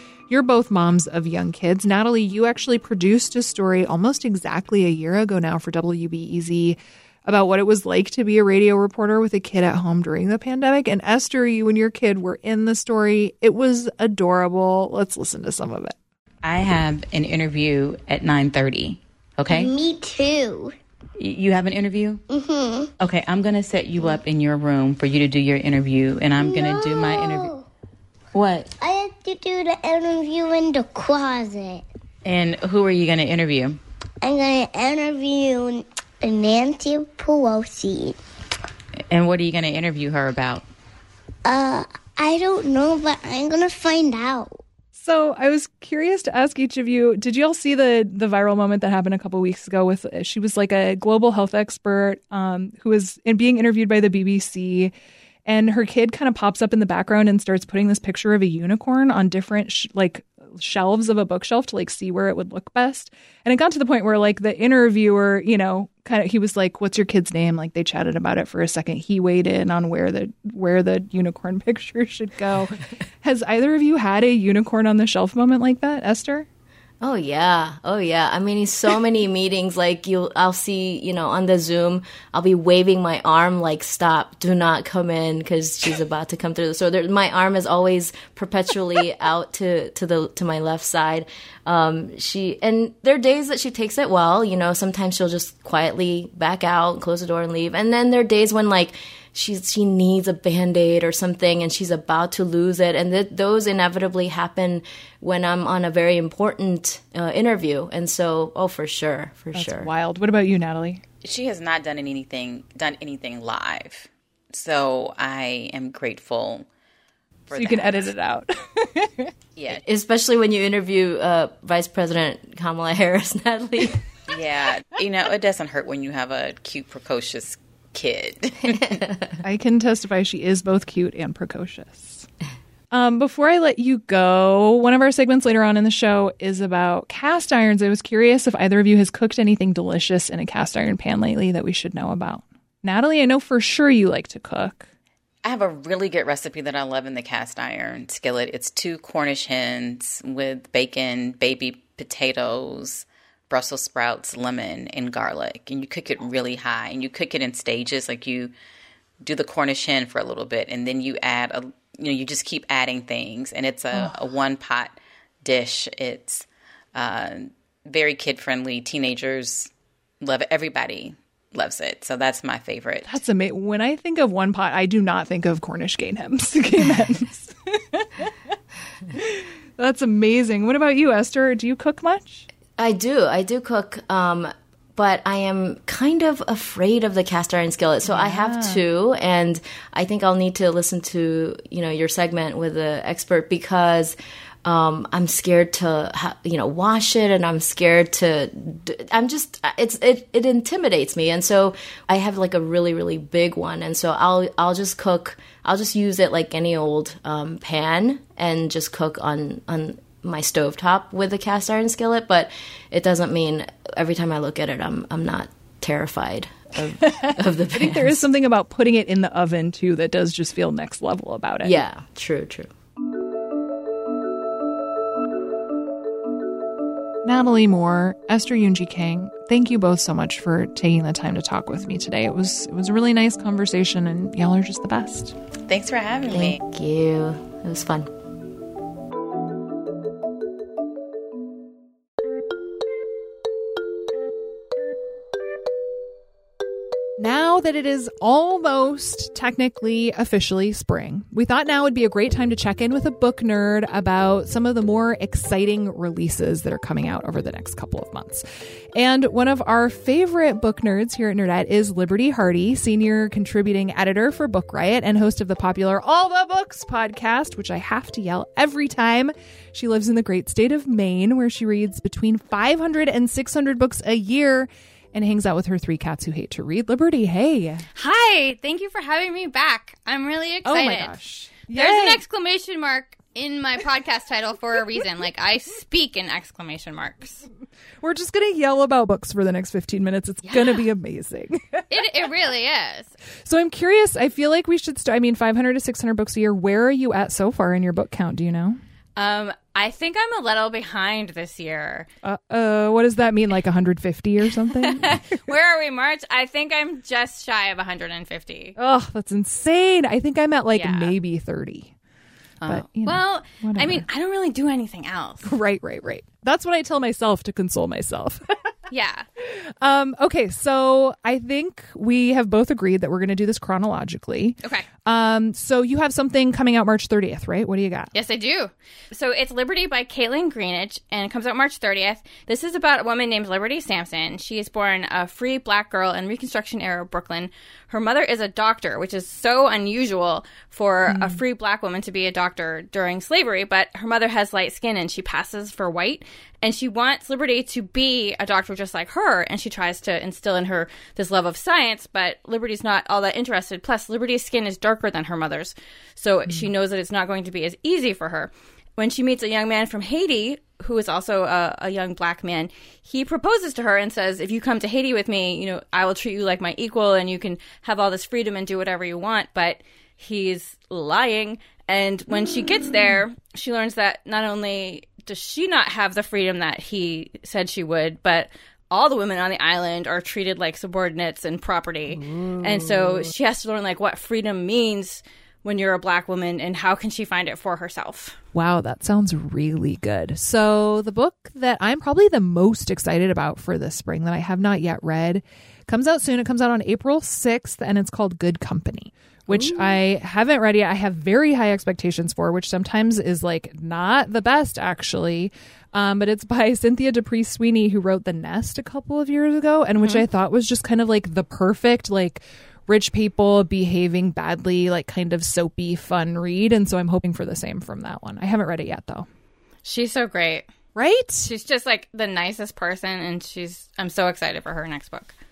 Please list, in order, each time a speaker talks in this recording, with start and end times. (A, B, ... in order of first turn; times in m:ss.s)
0:00.3-0:16.0 A
0:16.4-0:19.7 B
0:19.5-0:20.7 C
0:21.2-0:22.2 B
0:22.3-0:22.9 C
0:23.0-0:27.5 B
0:26.4-0:27.6 C
0:28.3-0:28.7 B
0:28.8-0:31.8 C
0:32.2-0:33.8 B
0:34.2-0:38.2 C
0:39.1-0:40.6 B
0:41.4-0:44.6 C
0:44.9-0:54.9 A
0:55.4-1:16.4 A
1:17.0-1:49.9 D
1:49.5-1:51.0 A
1:51.2-1:56.7 B
1:57.5-1:58.0 B
1:57.5-1:59.3 A
1:59.7-2:04.0 D
2:04.3-2:09.1 B
2:09.4-2:12.2 A
2:12.9-2:24.9 A
2:25.4-2:38.5 B
2:39.2-2:53.2 B
2:53.1-2:58.3 A
2:59.1-3:02.4 A
3:02.8-3:38.2 D
3:08.0-3:08.8 A
3:37.2-3:41.8 A
3:41.6-3:42.7 D
3:47.2-3:55.3 A
3:55.7-3:56.6 B
3:56.3-3:58.1 D
4:07.2-4:37.8 A
4:38.0-4:47.4 E
4:40.6-4:42.2 A
4:48.0-4:51.8 A
4:50.4-4:50.8 E
4:51.9-4:53.1 E
4:53.4-4:58.8 A
4:59.2-5:02.1 E
5:02.2-5:05.2 A
5:04.8-5:08.8 E
5:08.8-5:11.9 A
5:10.7-5:11.1 E
5:12.6-5:15.5 E
5:12.6-5:14.0 A
5:15.4-5:18.7 A
5:18.9-5:19.2 E
5:19.4-5:28.1 A
5:28.1-6:28.4 E
5:41.1-5:41.4 A
6:22.1-6:23.3 A
6:28.5-6:59.3 A
6:39.5-6:40.0 E
6:50.0-6:50.2 E
6:59.8-7:00.7 E
7:01.0-7:01.5 A
7:01.4-7:05.3 E